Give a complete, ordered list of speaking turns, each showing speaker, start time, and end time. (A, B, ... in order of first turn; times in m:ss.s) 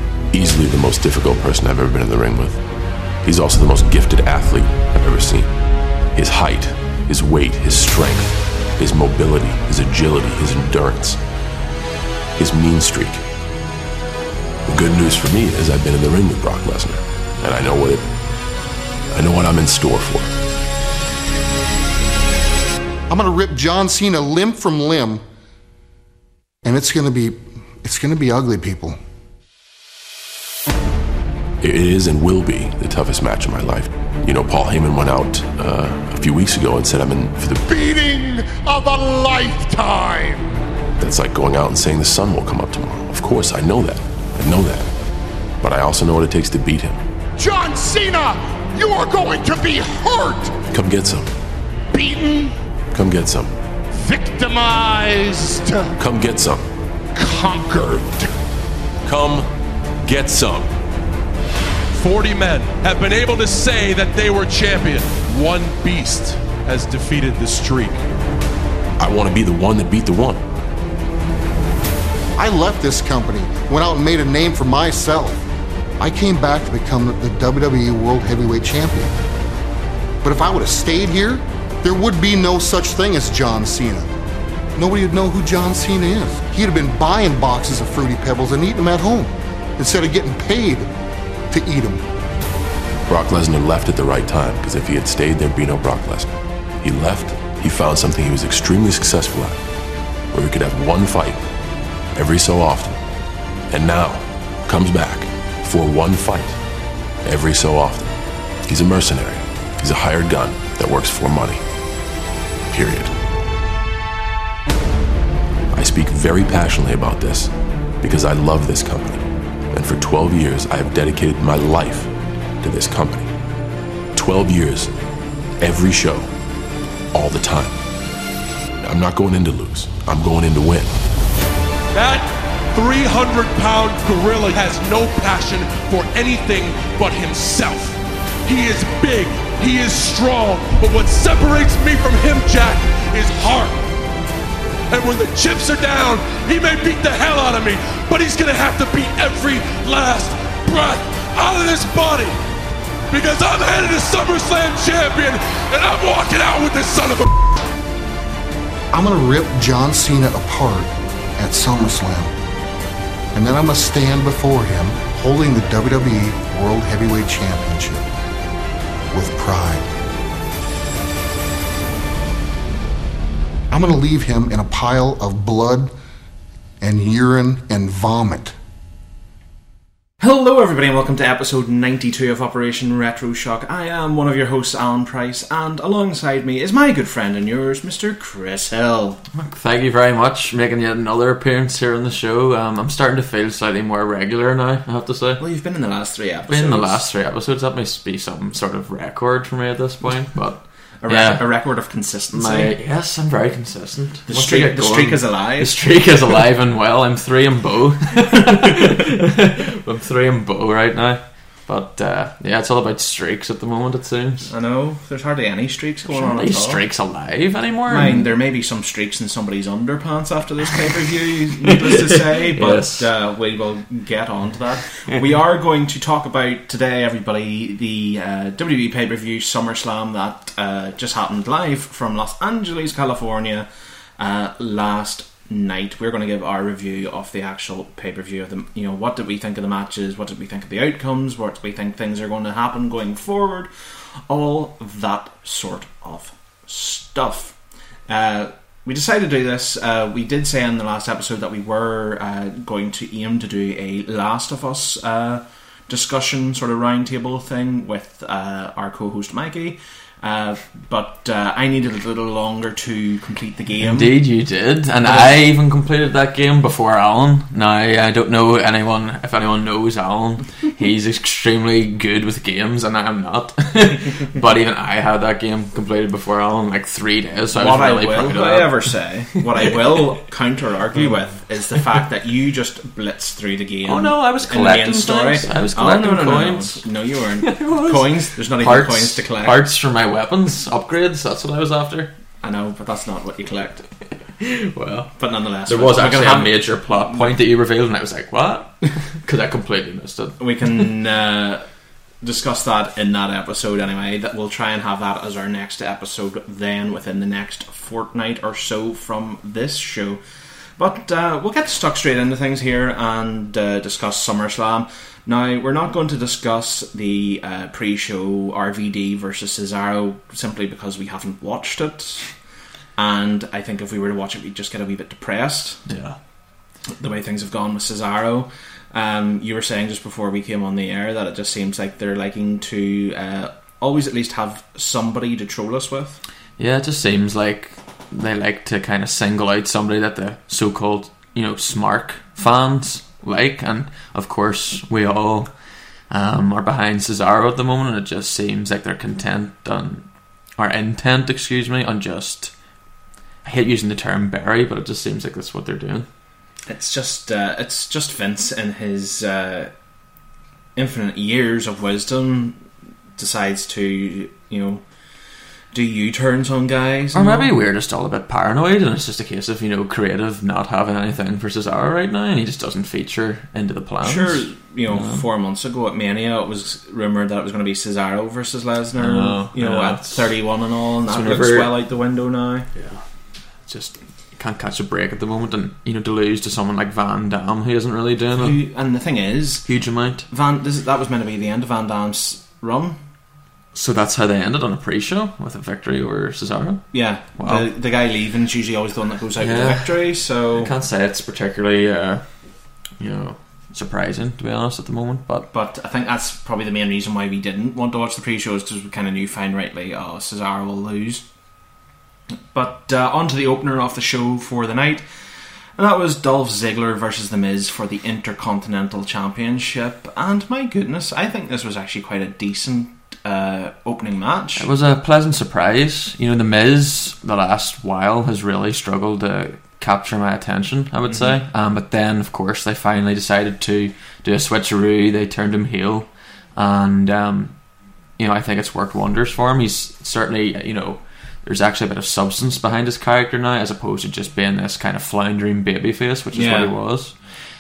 0:00.3-0:02.6 A
0:03.2-0:05.5 A
0:06.1-0:11.2 A
0:12.4-0:13.2 A
0:14.7-0:18.1 A
0:19.1-0:20.3 A
0:23.1-0:25.2 B
0:26.6-0:29.0 B
0:31.6-0:37.6 A
0:37.6-0:40.5 C
0:41.0-0:44.9 A
0:45.6-0:47.0 A
0:47.4-0:50.6 C
0:50.7-0:51.3 A
0:51.9-0:52.6 C
0:52.9-0:53.5 A
0:53.9-0:56.0 C
0:56.0-0:56.6 A
0:57.2-0:58.3 C
0:59.0-0:59.5 A
1:00.0-1:00.7 A
1:01.9-1:08.0 D
1:09.0-1:10.4 A
1:12.4-1:15.4 B
1:16.0-1:19.1 B
1:20.2-1:24.1 B
1:24.8-1:30.9 B
1:31.5-1:32.0 B
1:33.1-1:36.3 A
1:36.8-1:39.6 A
1:40.3-1:41.4 A
1:42.2-1:43.0 A
1:43.7-1:46.6 A
1:47.2-1:48.1 A
1:48.7-1:51.6 A
1:52.7-1:53.1 A
1:55.7-2:02.1 A
2:02.6-2:03.3 A
2:04.1-2:04.9 A
2:05.6-2:06.3 A
2:07.1-2:07.8 A
2:08.8-2:10.9 A
2:11.9-2:23.8 D
2:24.9-2:32.4 D
2:33.1-2:37.3 D
2:38.9-2:42.3 B
2:43.3-2:48.0 B
2:49.1-2:49.9 B
2:53.7-2:55.9 B
2:56.8-2:58.6 B
3:00.2-3:09.2 E
3:09.3-3:15.4 F
3:15.4-3:17.0 E
3:16.5-3:21.4 F
3:21.0-3:22.7 E
3:22.3-3:34.5 F
3:24.3-3:25.8 E
3:34.5-3:36.8 E
3:36.1-3:38.3 F
3:37.9-3:53.7 E
3:41.7-3:43.1 F
3:54.2-4:03.7 E
4:04.3-4:07.6 E
4:08.1-4:24.2 E
4:23.8-4:38.8 F
4:37.5-4:49.6 E
4:39.4-4:39.8 F
4:43.9-4:46.8 F
4:47.4-4:52.1 F
4:52.4-4:53.8 E
4:54.4-4:55.1 F
4:55.2-4:57.3 E
4:55.7-5:00.4 F
5:00.4-5:01.6 E
5:02.2-5:10.2 E
5:10.8-5:22.3 E
5:23.0-5:25.8 E
5:25.9-5:26.2 F
5:27.0-5:36.2 E
5:36.6-5:45.5 F
5:46.1-5:50.1 F
5:50.6-5:52.5 F
5:53.4-5:56.1 F
5:56.7-5:59.7 E
6:00.8-6:02.6 E
6:03.2-6:04.8 E
6:05.7-6:07.5 E
6:07.1-6:15.2 F
6:14.0-6:22.7 E
6:19.0-6:20.3 F
6:21.1-6:21.7 F
6:23.6-6:28.6 F
6:28.4-6:29.7 E
6:29.7-6:30.3 F
6:30.3-6:33.0 E
6:33.7-6:37.7 F
6:36.9-6:40.7 E
6:39.4-6:40.0 F
6:40.6-6:42.2 F
6:43.0-6:45.5 F
6:45.5-6:51.2 E
6:52.5-6:55.0 E
6:55.8-7:04.7 E
7:04.6-7:17.5 F
7:11.1-7:11.4 E
7:18.2-7:27.2 F
7:26.3-7:26.7 E